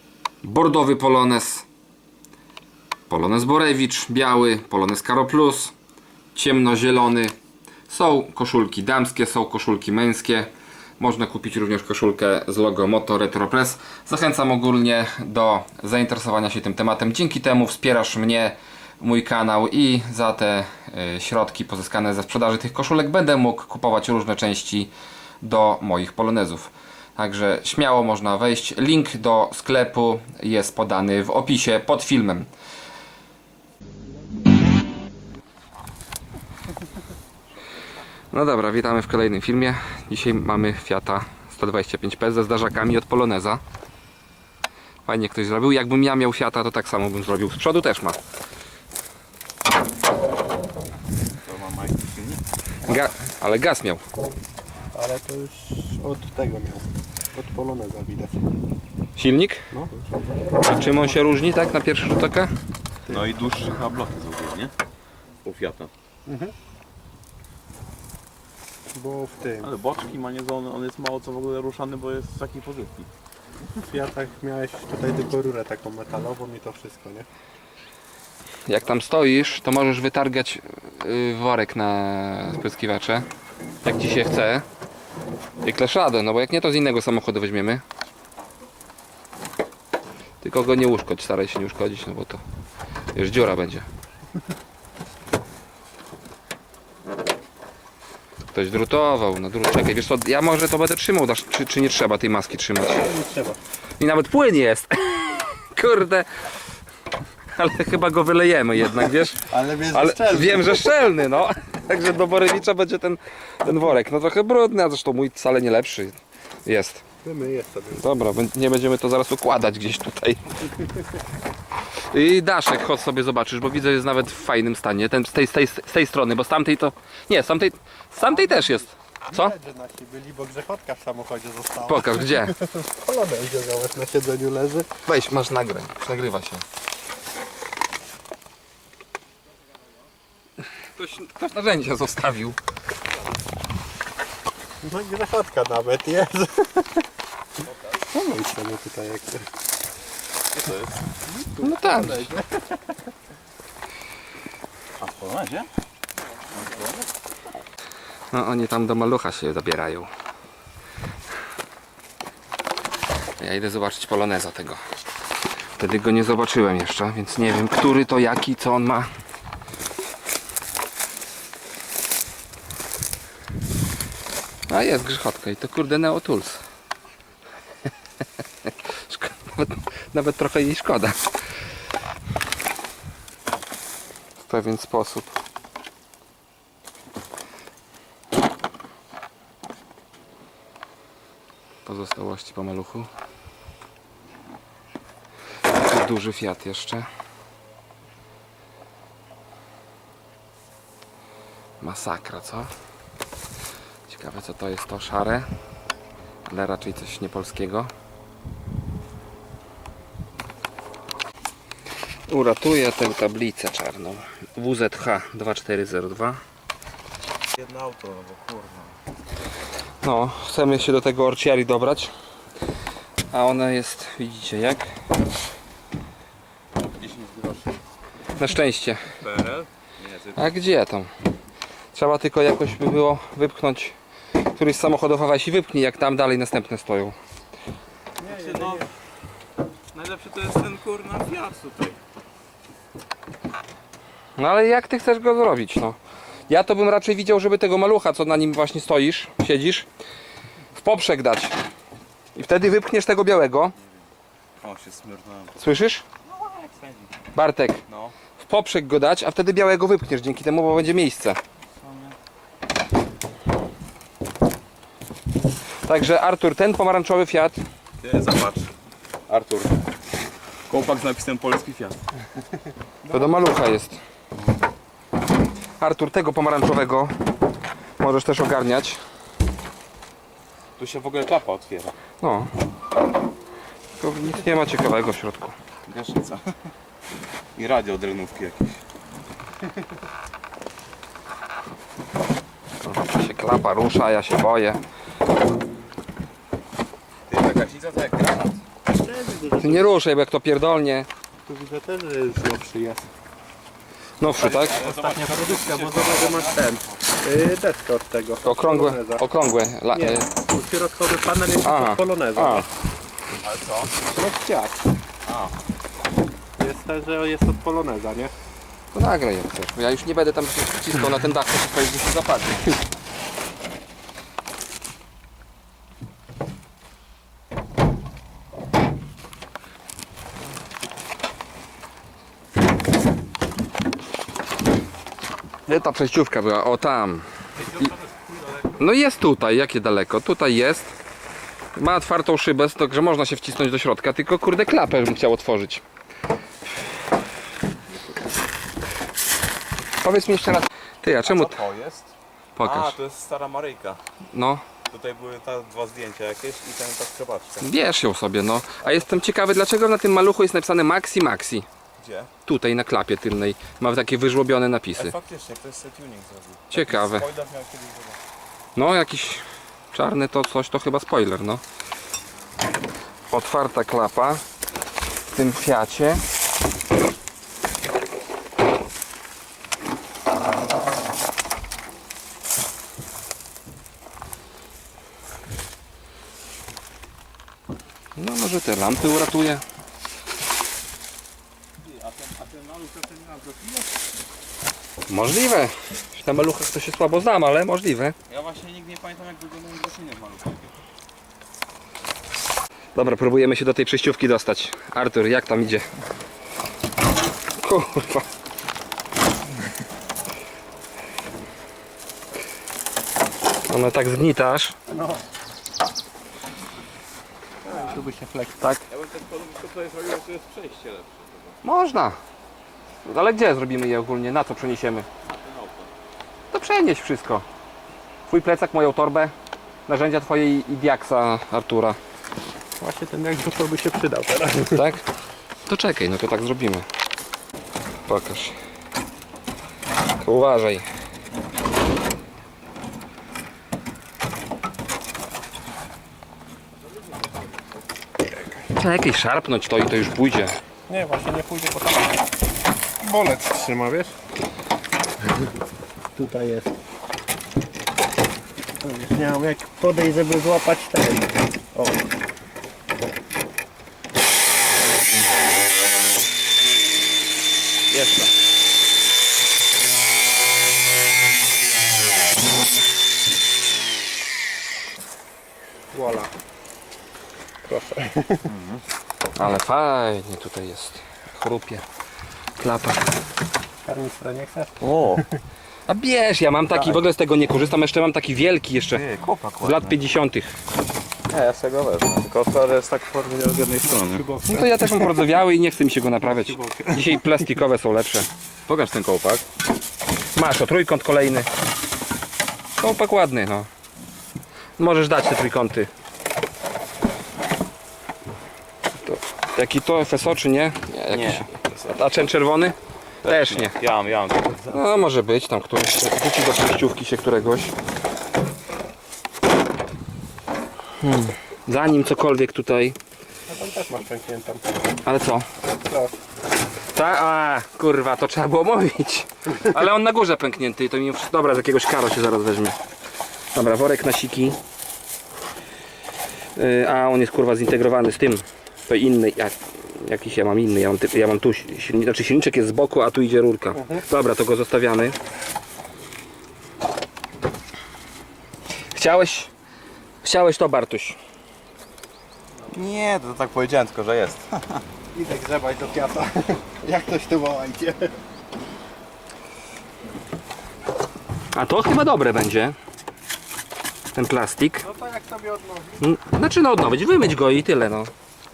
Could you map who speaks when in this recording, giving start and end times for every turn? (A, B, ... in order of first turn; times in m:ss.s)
0:00.4-0:01.7 A
0:03.1-0:05.7 A
0:06.3-0:07.3 A
0:07.9-0:32.5 A
0:38.3-0:43.6 A
0:45.0-0:48.2 A
0:51.4-0:52.4 B
0:52.8-0:54.0 A
0:54.9-0:58.4 C
0:59.2-0:59.6 A
0:59.7-1:01.2 C
1:00.6-1:02.5 A
1:03.1-1:04.7 B
1:05.4-1:05.9 B
1:06.2-1:06.5 C
1:08.9-1:09.7 C
1:09.6-1:13.1 B
1:13.8-1:17.3 C
1:18.7-1:23.3 A
1:23.8-1:24.6 A
1:25.6-1:27.8 A
1:30.4-1:32.4 A
1:33.2-1:33.9 A
1:38.5-1:43.0 A
1:43.0-1:43.6 C
1:44.0-1:46.3 A
1:47.5-1:57.0 A
1:49.5-1:51.0 C
1:57.2-1:58.1 C
1:58.0-2:00.8 A
2:02.1-2:09.5 A
2:08.2-2:14.9 C
2:11.9-2:12.6 A
2:15.1-2:16.6 A
2:21.0-2:22.6 A
2:24.8-2:27.1 C
2:27.6-2:28.2 B
2:28.1-2:29.5 C
2:30.5-2:31.1 B
2:31.5-2:32.8 C
2:31.6-2:32.3 A
2:35.0-2:35.7 B
2:36.5-2:37.1 B
2:38.3-2:40.1 A
2:43.4-2:44.8 A
2:45.8-2:49.1 A
2:54.7-2:56.6 A
2:58.6-3:01.2 A
3:04.4-3:05.3 A
3:11.8-3:13.1 A
3:15.8-3:17.1 A
3:21.8-3:22.7 A
3:24.1-3:25.5 A
3:26.4-3:27.9 A
3:32.3-3:36.4 A
3:37.6-3:38.9 B
3:40.0-3:42.1 A
3:43.3-3:44.9 A
3:47.0-3:47.8 B
3:48.4-3:49.1 A
3:49.2-3:50.5 B
3:50.4-3:51.1 A
3:51.9-3:53.9 A
3:54.5-3:57.2 A
3:58.2-3:58.9 C
3:58.2-3:58.9 B
3:59.9-4:02.0 B
4:04.4-4:06.0 A
4:06.5-4:09.9 A
4:10.8-4:11.5 A
4:12.3-4:13.8 A
4:14.6-4:15.6 B
4:15.6-4:16.0 A
4:16.2-4:17.2 B
4:17.3-4:17.8 A
4:17.9-4:18.1 B
4:18.4-4:21.4 A
4:21.7-4:22.2 B
4:25.8-4:27.6 A
4:28.0-4:28.7 B
4:29.3-4:29.9 B
4:30.7-4:32.0 B
4:33.0-4:33.6 C
4:33.1-4:34.0 A
4:35.8-4:37.1 A
4:38.0-4:39.0 A
4:40.8-4:41.9 B
4:42.2-4:42.5 A
4:44.0-4:45.6 A
4:45.9-4:46.5 B
4:47.6-4:48.8 B
4:52.8-4:54.8 A
4:57.3-4:58.6 B
4:58.9-4:59.9 C
4:59.6-5:01.1 A
5:01.4-5:03.1 C
5:04.2-5:04.8 A
5:04.3-5:07.0 B
5:04.4-5:09.2 C
5:08.4-5:10.3 A
5:09.9-5:12.7 C
5:11.6-5:12.6 A
5:13.4-5:14.0 B
5:14.1-5:14.8 C
5:15.2-5:15.5 B
5:16.6-5:18.3 C
5:18.9-5:22.8 A
5:35.7-5:37.2 A
5:37.8-5:38.6 C
5:38.8-5:40.9 A
5:41.8-5:45.8 A
5:50.0-5:51.6 A
5:51.2-5:54.0 B
5:52.6-5:53.0 A
5:54.3-5:54.6 A
5:54.9-5:57.7 B
5:57.6-6:01.7 A
6:02.0-6:02.3 B
6:02.4-6:05.1 A
6:05.0-6:08.2 B
6:06.7-6:07.2 A
6:08.8-6:11.6 A
6:13.3-6:14.4 A
6:15.3-6:16.2 A
6:28.2-6:29.6 A
6:31.8-6:33.9 B
6:35.1-6:38.1 A
6:38.3-6:40.8 B
6:42.9-6:45.9 A
6:47.6-6:48.3 A
6:53.7-6:54.8 A
6:54.9-6:55.2 C
6:57.6-6:58.6 C
6:57.7-6:57.9 B
6:58.9-7:01.6 B
7:01.6-7:02.2 A
7:03.0-7:05.1 A
7:05.2-7:05.9 B
7:06.5-7:07.4 A
7:08.3-7:09.3 A
7:09.9-7:12.0 A
7:12.8-7:14.9 C
7:14.7-7:15.0 A
7:15.6-7:16.9 A
7:18.1-7:18.5 A
7:20.2-7:20.8 A
7:28.6-7:30.6 A
7:30.9-7:32.3 C
7:33.0-7:34.2 C
7:36.1-7:36.8 C
7:38.8-7:41.8 C
7:47.9-7:48.3 A
7:55.9-7:56.3 C
7:57.6-7:58.5 C
7:58.4-7:58.8 B
7:59.3-8:01.8 A
8:02.6-8:03.0 A
8:03.8-8:05.2 C
8:04.8-8:05.2 B
8:05.9-8:09.0 A
8:06.7-8:07.0 B
8:08.9-8:10.0 B
8:09.6-8:10.5 A
8:11.3-8:14.3 B
8:13.8-8:15.3 C
8:14.5-8:18.3 A
8:16.2-8:17.6 C
8:18.7-8:19.4 B
8:20.4-8:21.5 A
8:22.8-8:23.7 A
8:24.8-8:25.9 A
8:29.0-8:33.7 A
8:31.1-8:31.9 B
8:33.2-8:34.8 B
8:34.7-8:37.7 A
8:41.0-8:43.0 A
8:43.5-8:44.8 C
8:45.0-8:45.5 A
8:45.8-8:46.2 C
8:46.9-8:52.8 A
8:53.6-8:54.6 A
8:56.6-9:05.2 A
9:03.7-9:04.0 C
9:08.9-9:09.5 A
9:10.2-9:11.2 A
9:12.7-9:14.8 B
9:15.1-9:18.2 C
9:21.5-9:22.8 A
9:24.2-9:24.9 A
9:24.8-9:26.1 C
9:26.0-9:28.1 A